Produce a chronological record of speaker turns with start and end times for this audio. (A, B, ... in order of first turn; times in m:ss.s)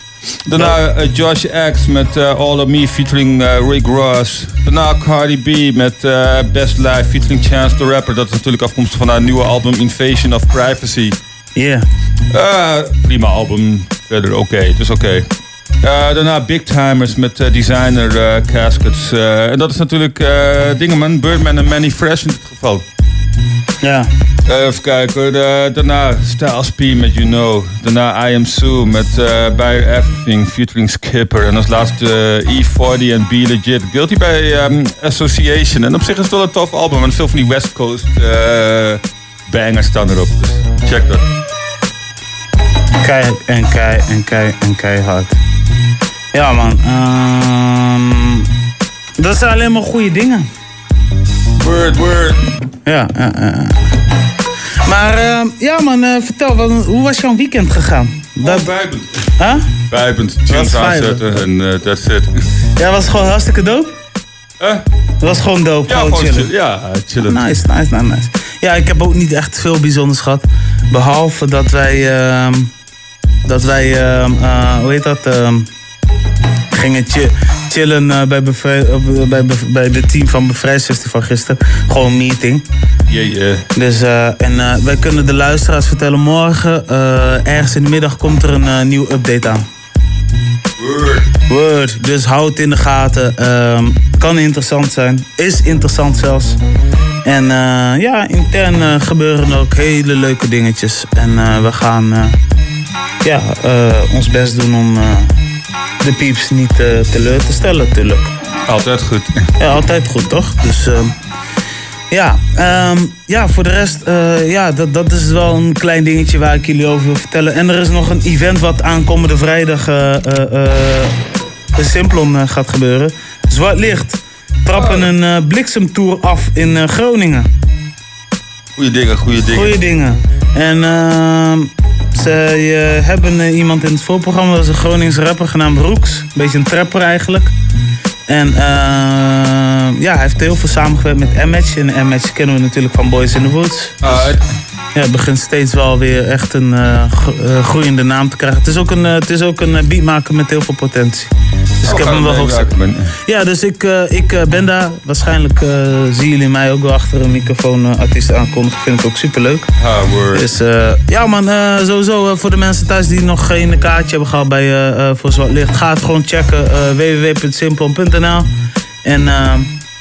0:00.5-0:11.2 A
0:11.6-0:11.8 B
0:12.3-0:15.3 A
0:15.8-0:22.8 A
0:23.8-0:24.1 B
0:24.5-0:41.2 A
0:43.0-0:45.4 B
0:46.3-0:48.5 B
0:49.2-0:50.5 B
0:51.6-0:52.4 A
0:52.9-0:53.8 B
0:54.9-0:58.7 B
0:58.4-0:59.1 A
0:59.9-1:02.3 A
1:00.5-1:01.4 B
1:02.8-1:03.9 B
1:05.2-1:06.5 B
1:05.9-1:07.6 A
1:07.3-1:12.7 B
1:13.5-1:15.7 B
1:16.7-1:22.6 B
1:23.1-1:23.6 A
1:23.8-1:29.7 B
1:30.8-1:31.3 A
1:31.5-1:36.6 B
1:37.2-1:42.4 B
1:43.2-1:45.3 B
1:46.0-1:48.3 B
1:48.7-1:49.5 A
1:49.6-1:51.1 B
1:52.1-2:01.1 B
2:01.8-2:07.5 B
2:04.7-2:05.1 A
2:08.8-2:09.8 A
2:09.5-2:17.5 B
2:18.3-2:24.3 B
2:24.0-2:24.4 A
2:25.0-2:31.3 B
2:31.8-2:33.1 A
2:31.8-2:32.7 B
2:33.3-2:39.7 B
2:39.8-2:40.5 A
2:40.4-2:48.5 B
2:49.0-2:49.7 B